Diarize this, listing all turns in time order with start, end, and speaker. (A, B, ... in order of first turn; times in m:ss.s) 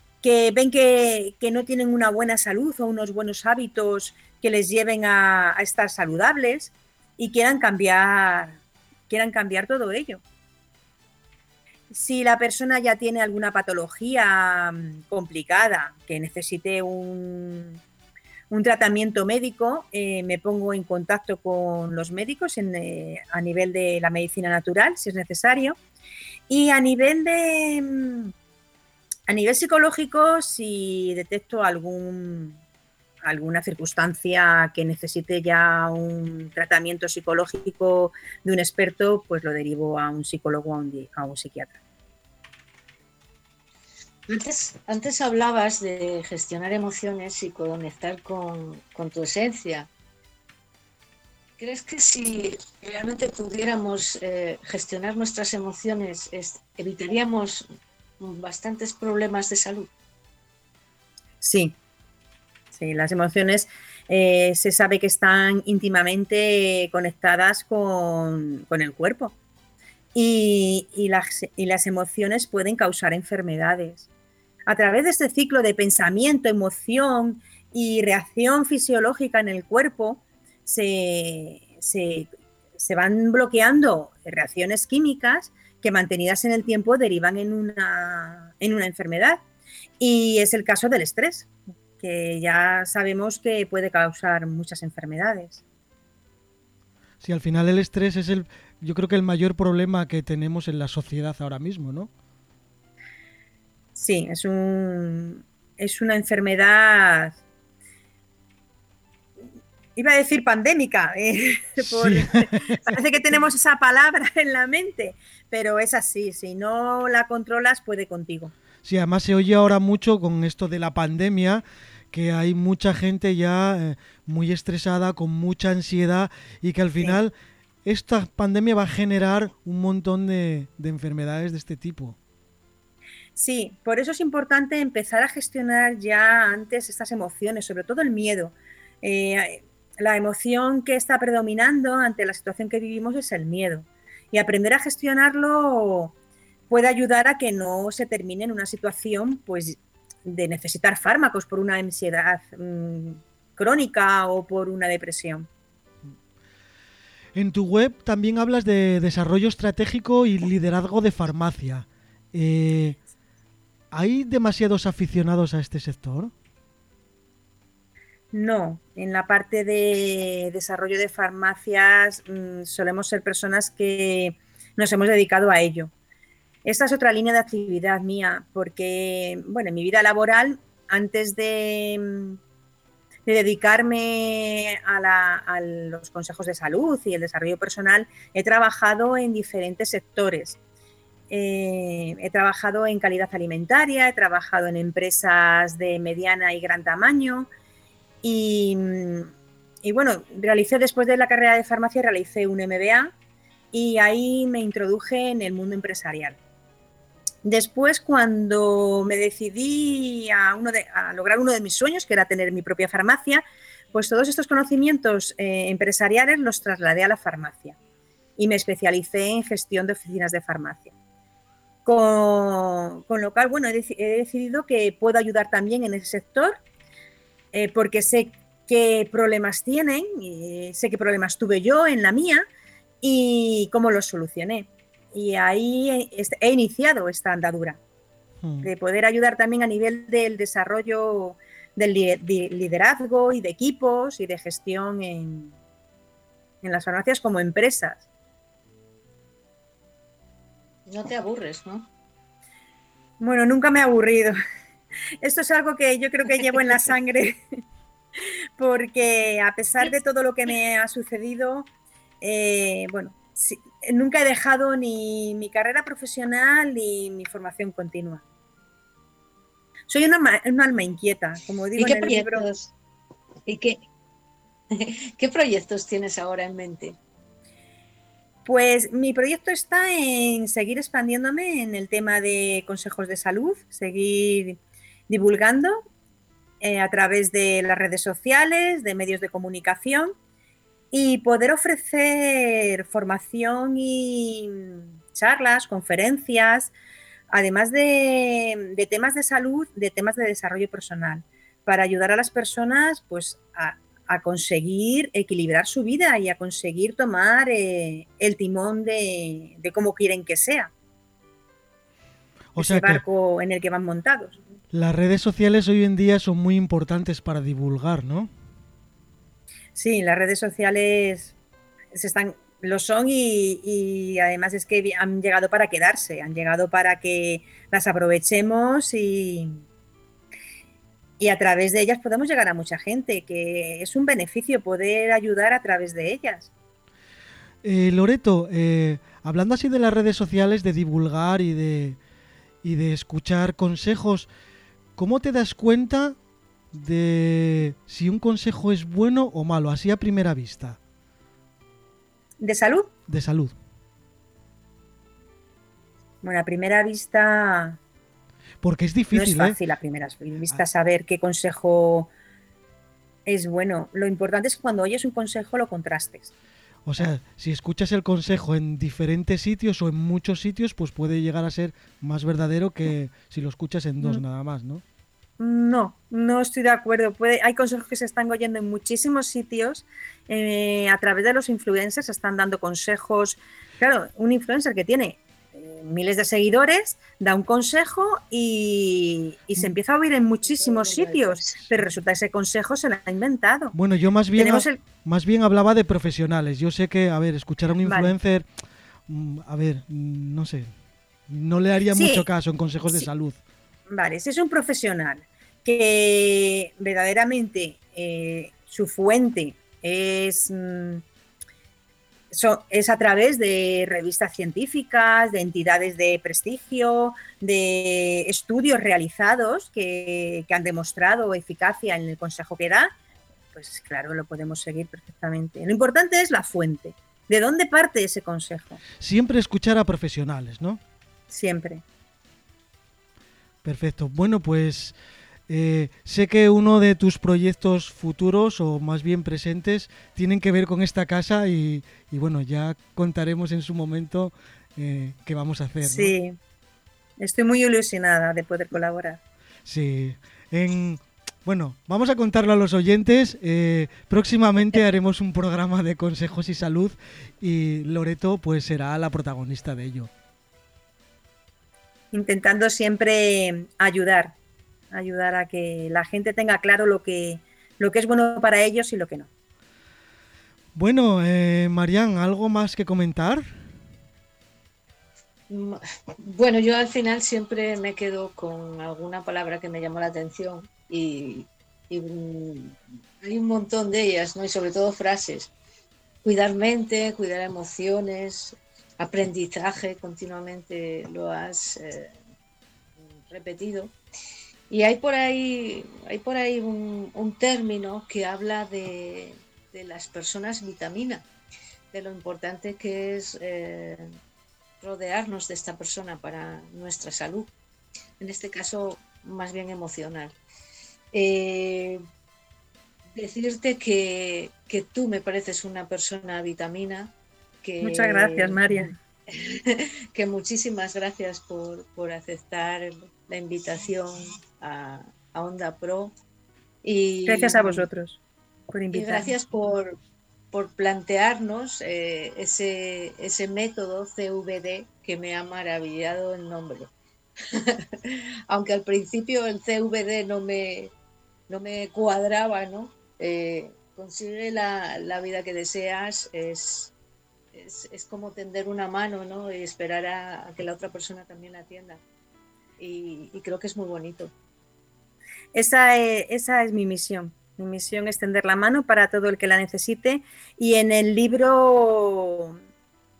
0:00.2-0:10.2 A
0:11.9-0:17.8 A
0:18.5-0:25.8 A
0:26.5-0:28.3 A
0:29.3-0:32.6 A
0:33.2-0:41.7 A
0:44.3-0:49.9 B
0:51.6-0:57.7 B
0:58.2-0:59.9 B
1:01.4-1:01.7 A
1:02.7-1:09.4 A
1:10.1-1:14.0 A
1:14.7-1:29.4 A
1:30.0-1:35.6 A
1:37.2-1:42.1 C
1:44.0-1:47.4 A
1:50.0-1:58.5 A
1:51.8-1:53.0 C
1:58.8-2:07.3 C
2:07.8-2:12.2 C
2:13.4-2:26.1 A
2:26.7-2:35.5 A
2:37.3-2:43.0 C
2:43.9-2:46.3 C
2:48.3-2:55.9 A
2:56.6-3:02.4 A
3:03.2-3:10.6 A
3:11.3-3:17.5 A
3:18.2-3:19.3 A
3:19.8-3:23.1 A
3:23.7-3:26.4 A
3:27.4-3:33.4 A
3:33.9-3:37.8 A
3:38.4-3:40.9 A
3:41.8-3:46.6 A
3:47.5-3:52.4 A
3:53.0-3:57.8 A
3:58.4-3:58.7 C
3:58.6-4:05.5 A
4:06.6-4:08.0 A
4:10.9-4:11.9 B
4:13.2-4:14.3 A
4:15.2-4:17.4 A
4:18.6-4:21.7 A
4:22.2-4:28.2 A
4:29.9-4:32.5 A
4:31.8-4:32.7 B
4:33.4-4:33.8 B
4:34.7-4:37.0 B
4:38.4-4:45.8 A
4:46.6-4:50.1 A
4:50.9-4:56.7 A
4:57.3-5:10.7 A
5:12.5-5:13.0 C
5:12.6-5:14.4 A
5:14.7-5:18.3 C
5:19.7-5:21.3 A
5:21.9-5:29.6 A
5:31.2-5:36.5 A
5:37.6-5:42.0 C
5:42.6-5:44.3 C
5:45.0-5:46.2 C
5:46.7-5:50.8 C
5:52.4-5:52.9 A
5:53.1-5:53.5 C
5:56.2-5:57.8 A
5:58.6-5:59.6 C
5:59.1-6:02.1 A
6:03.2-6:06.3 A
6:06.8-6:14.8 C
6:15.4-6:33.7 A
6:30.5-6:31.7 B
6:33.7-6:38.4 C
6:34.4-6:34.8 A
6:37.8-6:38.1 A
6:39.1-6:40.7 C
6:41.3-6:43.4 C
6:41.9-6:42.2 A
6:43.9-6:51.0 A
6:52.3-7:02.9 A
7:03.5-7:08.8 A
7:09.0-7:10.8 C
7:11.3-7:11.8 A
7:13.6-7:14.9 C
7:15.5-7:26.1 C
7:25.8-7:26.4 A
7:27.2-7:29.2 A
7:29.6-7:40.1 C
7:42.1-7:44.4 A
7:44.9-7:49.3 A
7:50.7-7:53.4 C
7:55.5-8:05.5 B
8:06.2-8:12.1 B
8:13.1-8:13.9 B
8:14.7-8:21.2 B
8:21.9-8:24.1 B
8:24.8-8:27.5 B
8:28.2-8:30.3 B
8:31.1-8:32.0 B
8:33.1-8:46.1 B
8:37.8-8:38.9 A
8:46.8-8:47.9 B
8:47.2-8:48.2 A
8:48.7-8:49.3 A
8:48.9-8:50.0 B
8:50.5-8:56.9 B
8:57.5-9:00.9 B
9:01.5-9:06.9 B
9:07.5-9:12.0 B
9:12.8-9:14.3 B
9:15.5-9:22.6 A